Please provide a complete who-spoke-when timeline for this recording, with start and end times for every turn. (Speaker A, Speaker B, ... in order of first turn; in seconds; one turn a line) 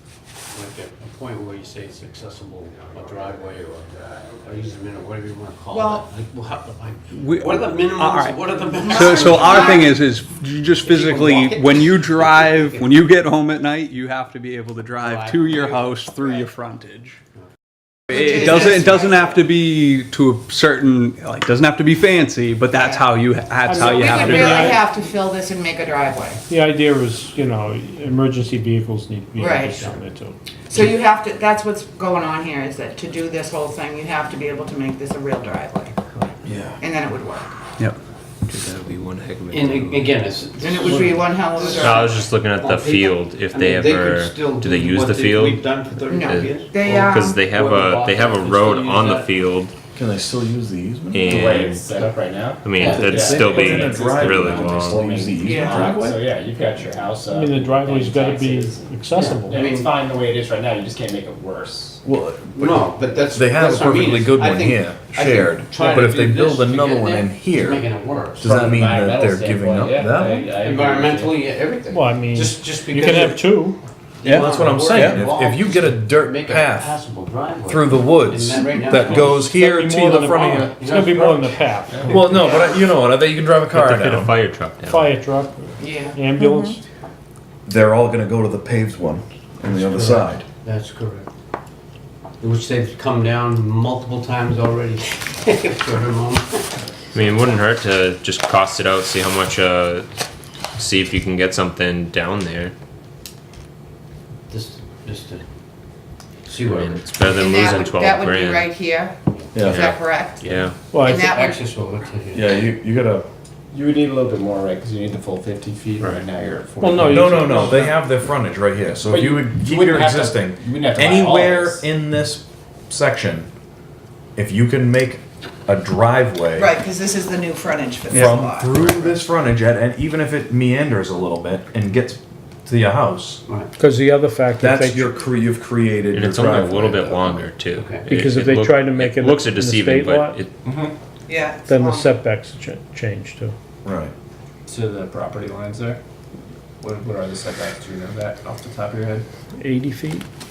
Speaker A: 0.5-9.8
Speaker B: 5.7-6.1
Speaker C: 7.1-17.2
Speaker B: 8.9-9.9
Speaker A: 10.8-13.0
Speaker A: 15.0-16.2
Speaker B: 18.1-19.4
Speaker C: 18.1-24.8
Speaker B: 22.7-23.0
Speaker D: 23.6-24.8
Speaker B: 23.7-26.4
Speaker D: 26.5-30.4
Speaker B: 29.4-29.8
Speaker B: 30.7-36.0
Speaker E: 36.4-36.8
Speaker B: 36.8-37.5
Speaker F: 38.5-40.2
Speaker A: 39.5-41.9
Speaker B: 40.6-42.3
Speaker F: 41.8-45.6
Speaker A: 42.6-49.3
Speaker B: 46.1-47.4
Speaker F: 46.2-49.7
Speaker E: 49.9-51.7
Speaker F: 51.1-51.8
Speaker G: 51.2-62.0
Speaker A: 51.9-52.1
Speaker F: 52.6-55.1
Speaker A: 52.8-53.4
Speaker E: 52.8-56.2
Speaker D: 53.5-54.4
Speaker B: 55.4-56.0
Speaker D: 57.2-59.6
Speaker A: 59.1-59.9
Speaker E: 62.0-70.5
Speaker A: 62.6-68.7
Speaker G: 68.4-71.4
Speaker A: 70.5-73.5
Speaker D: 71.9-73.8
Speaker A: 74.2-79.6
Speaker C: 74.2-75.2
Speaker E: 74.3-77.0
Speaker E: 77.6-80.8
Speaker D: 79.5-82.4
Speaker A: 80.8-81.7
Speaker E: 82.1-84.3
Speaker B: 82.3-82.8
Speaker F: 83.7-85.2
Speaker D: 83.8-84.3
Speaker D: 84.8-86.8
Speaker B: 85.8-86.2
Speaker E: 87.7-90.4
Speaker A: 89.6-91.3
Speaker A: 92.4-96.8
Speaker F: 97.1-100.1
Speaker F: 100.8-102.7
Speaker A: 104.5-105.4
Speaker A: 106.5-107.0
Speaker F: 106.6-108.7
Speaker B: 107.3-110.5
Speaker E: 109.5-110.0
Speaker F: 109.6-110.8
Speaker A: 110.7-112.7
Speaker D: 110.9-111.2
Speaker B: 111.0-111.7
Speaker E: 112.3-113.3
Speaker G: 113.7-117.9
Speaker D: 116.8-118.0
Speaker E: 117.0-123.5
Speaker G: 119.0-121.8
Speaker E: 124.3-126.7
Speaker B: 126.5-129.1
Speaker E: 128.1-133.4
Speaker D: 133.8-135.2
Speaker E: 134.6-137.4
Speaker F: 136.1-140.5
Speaker A: 137.7-138.1
Speaker D: 138.0-140.4
Speaker G: 140.6-140.9
Speaker B: 141.3-142.1
Speaker D: 141.7-143.5
Speaker E: 143.8-144.1
Speaker G: 144.7-146.0
Speaker G: 146.8-149.3
Speaker D: 149.6-150.3